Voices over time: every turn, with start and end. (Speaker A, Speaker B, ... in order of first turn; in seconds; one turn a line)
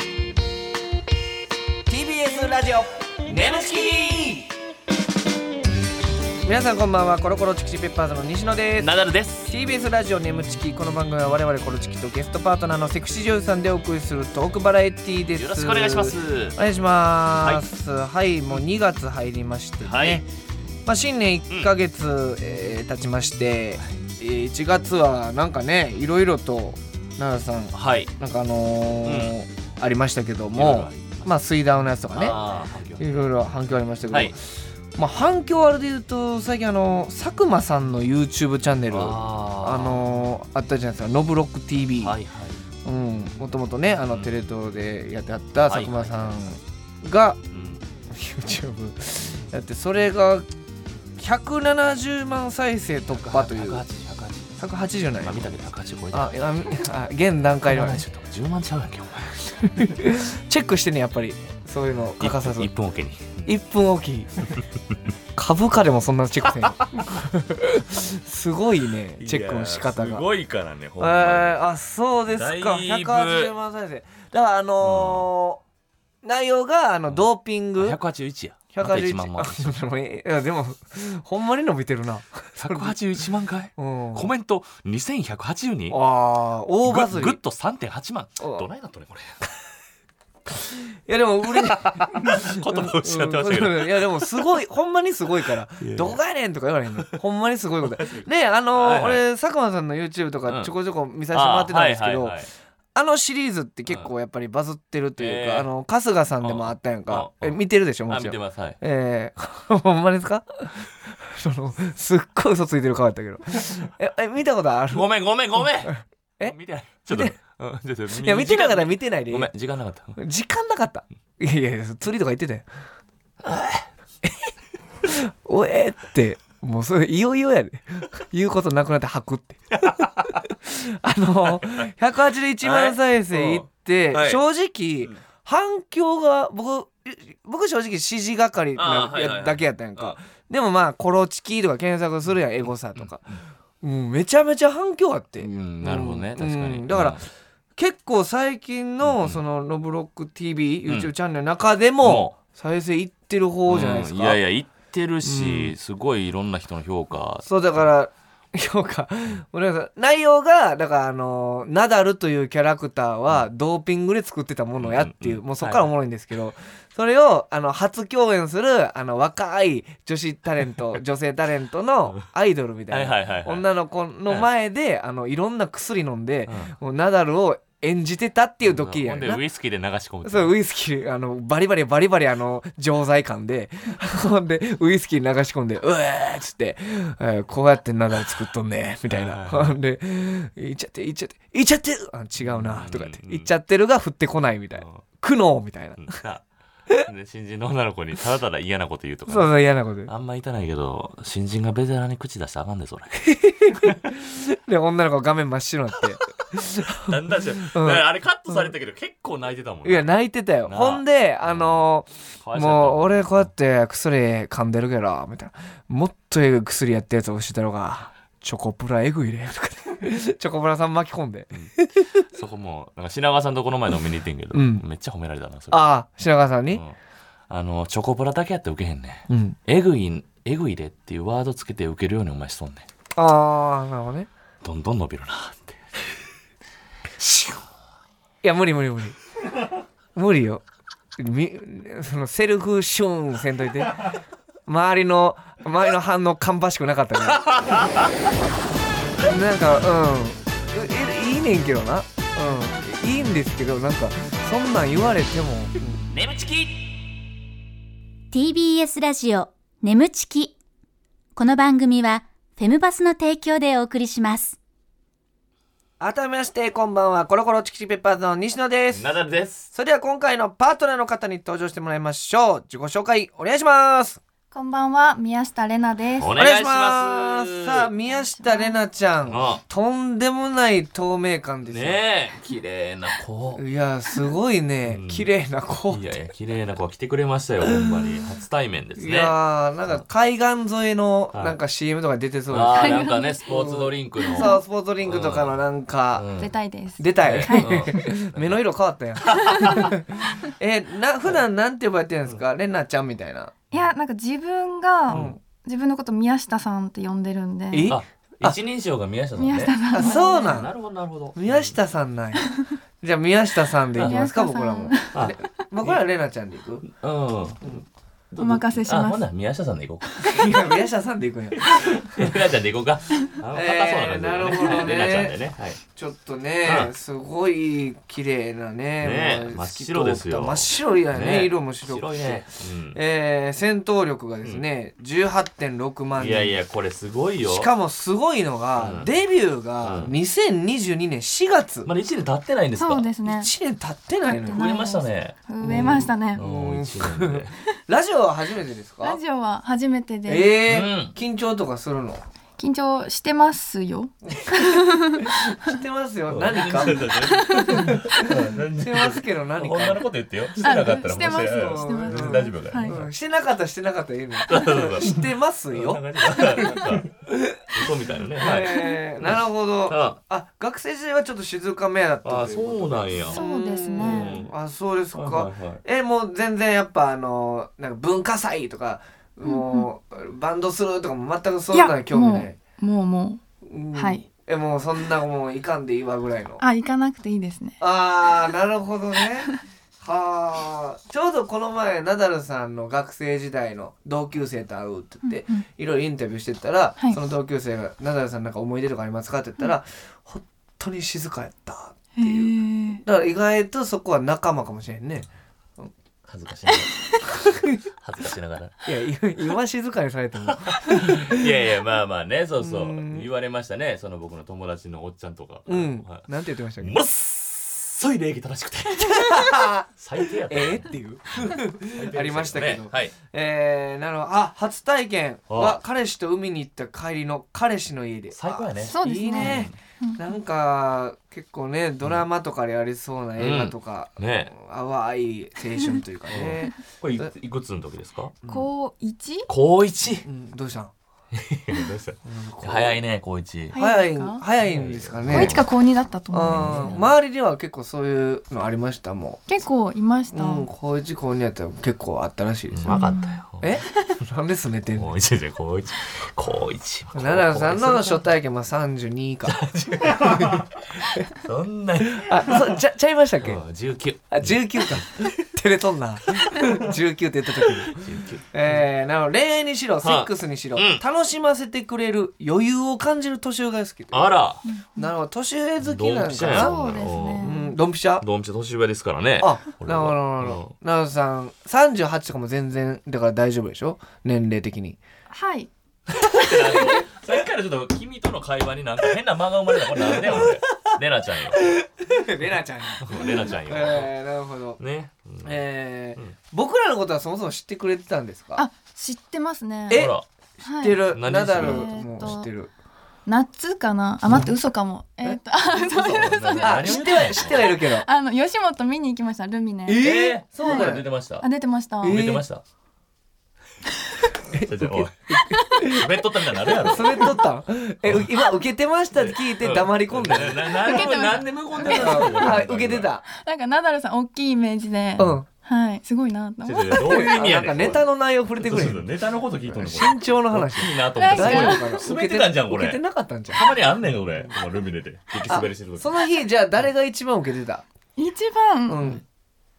Speaker A: 1.9-4.5
Speaker A: 6.5-8.9
Speaker B: 8.8-9.5
Speaker A: 9.4-20.2
Speaker B: 15.3-16.6
Speaker B: 17.4-17.6
Speaker B: 19.8-20.2
Speaker A: 20.9-32.4
Speaker B: 27.7-28.1
Speaker B: 29.0-29.3
Speaker B: 30.5-31.3
Speaker B: 32.1-33.3
Speaker A: 33.0-34.4
Speaker A: 35.0-42.1
Speaker B: 38.9-40.1
Speaker B: 42.0-42.6
Speaker A: 42.8-47.4
Speaker B: 44.1-44.4
Speaker B: 45.7-46.5
Speaker B: 47.5-47.8
Speaker A: 48.1-50.5
Speaker A: 51.2-53.8
Speaker B: 53.0-54.6
Speaker A: 54.6-55.5
Speaker B: 55.2-56.7
Speaker A: 56.1-58.0
Speaker B: 57.7-60.0
Speaker A: 59.7-62.7
Speaker B: 62.2-63.5
Speaker A: 63.4-64.3
Speaker A: 65.3-70.2
Speaker B: 69.2-71.6
Speaker A: 71.0-75.6
Speaker B: 72.3-73.5
Speaker B: 74.8-75.3
Speaker A: 76.2-78.0
Speaker B: 77.8-79.8
Speaker A: 78.7-83.0
Speaker B: 82.6-86.0
Speaker A: 83.8-84.3
Speaker A: 85.9-87.4
Speaker B: 86.8-89.4
Speaker A: 88.4-88.7
Speaker A: 90.5-102.4
Speaker B: 91.4-94.6
Speaker B: 95.8-96.2
Speaker B: 97.9-99.2
Speaker B: 100.5-100.7
Speaker B: 101.3-102.5
Speaker A: 102.9-115.0
Speaker B: 105.2-105.7
Speaker B: 106.4-108.8
Speaker B: 114.9-120.2
Speaker A: 115.6-116.5
Speaker A: 117.1-117.4
Speaker A: 118.1-119.5
Speaker A: 120.2-122.7
Speaker B: 123.4-123.9
Speaker A: 125.0-129.9
Speaker B: 129.8-130.4
Speaker A: 130.6-147.2
Speaker B: 131.5-131.8
Speaker B: 132.6-134.4
Speaker B: 138.7-140.2
Speaker B: 145.4-147.2
Speaker A: 147.8-154.4
Speaker B: 149.0-149.4
Speaker B: 152.0-152.3
Speaker B: 153.7-157.5
Speaker A: 155.2-155.7
Speaker A: 157.4-179.4
Speaker B: 164.8-165.9
Speaker B: 172.9-173.6
Speaker B: 176.5-176.7
Speaker B: 178.6-180.5
Speaker A: 180.2-196.2
Speaker B: 189.1-189.8
Speaker B: 192.4-193.5
Speaker B: 196.0-196.4
Speaker B: 197.0-199.5
Speaker A: 199.3-200.1
Speaker B: 200.1-204.0
Speaker A: 203.2-208.7
Speaker B: 206.6-210.1
Speaker A: 209.8-222.2
Speaker B: 210.7-211.8
Speaker B: 212.4-213.5
Speaker B: 222.3-225.9
Speaker A: 224.5-224.8
Speaker A: 225.7-226.8
Speaker B: 227.5-232.8
Speaker A: 229.3-229.6
Speaker A: 233.2-234.3
Speaker B: 234.6-235.8
Speaker A: 238.4-239.2
Speaker A: 240.1-240.6
Speaker A: 241.2-244.1
Speaker A: 244.7-247.8
Speaker B: 247.3-248.1
Speaker A: 249.2-256.1
Speaker B: 256.1-256.9
Speaker C: 258.3-260.6
Speaker C: 261.3-264.6
Speaker A: 266.0-269.1
Speaker B: 268.9-269.7
Speaker A: 269.7-274.2
Speaker D: 274.5-276.3
Speaker B: 276.2-277.9
Speaker A: 276.3-282.0
Speaker D: 278.1-278.7
Speaker B: 279.3-279.6
Speaker B: 281.7-283.6
Speaker A: 283.6-286.1
Speaker B: 284.9-285.3
Speaker B: 285.9-289.4
Speaker A: 287.7-288.0
Speaker A: 289.0-296.3
Speaker B: 291.3-291.6
Speaker B: 292.5-295.6
Speaker D: 292.8-293.4
Speaker D: 294.2-294.6
Speaker B: 296.1-296.5
Speaker D: 296.4-298.1
Speaker A: 297.0-303.5
Speaker B: 297.2-298.6
Speaker B: 299.2-299.9
Speaker D: 303.7-307.9
Speaker B: 305.1-305.4
Speaker A: 305.1-305.4
Speaker A: 307.7-308.6
Speaker B: 307.9-311.8
Speaker D: 309.4-310.6
Speaker A: 309.9-310.7
Speaker A: 311.3-312.5
Speaker A: 313.0-316.8
Speaker D: 314.0-315.2
Speaker B: 315.1-316.0
Speaker B: 316.8-320.5
Speaker D: 318.4-319.2
Speaker A: 320.2-322.3
Speaker B: 321.6-325.8
Speaker A: 323.5-325.4
Speaker A: 325.9-336.6
Speaker B: 326.6-326.9
Speaker B: 329.0-333.0
Speaker B: 336.2-337.7
Speaker A: 337.5-341.9
Speaker B: 338.8-339.1
Speaker B: 339.8-340.1
Speaker B: 341.8-343.1
Speaker D: 342.8-343.5
Speaker A: 343.2-344.8
Speaker D: 344.3-346.4
Speaker B: 344.5-347.5
Speaker A: 345.6-349.2
Speaker D: 349.0-350.5
Speaker A: 350.3-352.2
Speaker B: 350.7-351.1
Speaker D: 352.6-355.8
Speaker A: 354.2-360.0
Speaker B: 356.3-363.1
Speaker D: 357.2-357.9
Speaker D: 360.6-362.9
Speaker A: 361.4-367.7
Speaker B: 364.5-367.1
Speaker B: 367.7-370.2
Speaker A: 368.4-382.6
Speaker B: 372.2-373.4
Speaker D: 373.2-374.4
Speaker B: 374.0-374.5
Speaker B: 375.1-375.8
Speaker D: 379.4-379.9
Speaker D: 381.7-383.4
Speaker A: 383.6-386.6
Speaker D: 383.9-384.2
Speaker D: 386.6-387.8
Speaker A: 387.8-405.3
Speaker D: 395.3-395.6
Speaker D: 402.1-403.0
Speaker B: 406.2-408.8
Speaker A: 407.3-407.8
Speaker A: 408.8-411.5
Speaker B: 410.5-416.2
Speaker A: 412.6-413.3
Speaker A: 415.7-417.0
Speaker B: 416.8-423.1
Speaker A: 419.0-419.9
Speaker A: 420.5-437.3
Speaker B: 425.5-425.8
Speaker B: 428.3-429.7
Speaker D: 428.9-430.2
Speaker B: 433.4-434.5
Speaker B: 436.3-438.4
Speaker D: 438.5-439.5
Speaker B: 439.5-440.2
Speaker A: 440.2-440.9
Speaker B: 441.3-443.8
Speaker A: 442.2-443.0
Speaker D: 443.7-444.4
Speaker A: 443.7-445.6
Speaker B: 444.6-445.7
Speaker D: 445.3-447.0
Speaker A: 446.3-449.4
Speaker B: 446.4-447.1
Speaker D: 449.5-450.7
Speaker A: 450.3-453.0
Speaker B: 452.7-453.8
Speaker D: 452.9-453.4
Speaker A: 453.6-455.1
Speaker B: 455.0-458.2
Speaker A: 457.1-461.2
Speaker B: 459.5-462.8
Speaker A: 462.0-463.6
Speaker B: 463.4-465.4
Speaker A: 464.3-468.0
Speaker B: 466.3-466.9
Speaker B: 467.6-468.9
Speaker A: 468.5-474.4
Speaker B: 470.0-471.0
Speaker B: 474.1-474.6
Speaker D: 474.6-475.1
Speaker A: 474.9-476.7
Speaker B: 475.8-477.5
Speaker D: 476.4-477.7
Speaker A: 477.4-478.2
Speaker B: 478.2-480.7
Speaker A: 479.4-485.0
Speaker D: 485.3-485.7
Speaker B: 486.1-491.6
Speaker A: 489.9-490.9
Speaker A: 491.6-494.8
Speaker B: 493.0-494.1
Speaker B: 494.8-495.6
Speaker A: 495.4-498.6
Speaker D: 498.6-500.1
Speaker A: 499.9-502.7
Speaker B: 499.9-500.2
Speaker D: 500.6-501.0
Speaker B: 501.1-502.3
Speaker D: 501.5-502.5
Speaker D: 503.2-510.0
Speaker A: 505.2-508.1
Speaker B: 506.0-507.7
Speaker A: 509.9-511.0
Speaker B: 510.0-511.5
Speaker D: 510.6-512.2
Speaker A: 512.0-512.4
Speaker B: 512.0-512.6
Speaker A: 514.5-516.0
Speaker B: 514.5-515.2
Speaker B: 515.8-517.3
Speaker A: 516.8-521.0
Speaker B: 518.0-518.3
Speaker B: 519.1-523.1
Speaker D: 520.7-522.6
Speaker A: 521.8-523.2
Speaker D: 523.3-527.4
Speaker A: 525.2-525.4
Speaker B: 526.6-536.1
Speaker A: 526.9-529.0
Speaker A: 529.7-533.6
Speaker D: 531.1-531.9
Speaker A: 535.5-537.8
Speaker D: 538.2-539.0
Speaker A: 538.9-539.2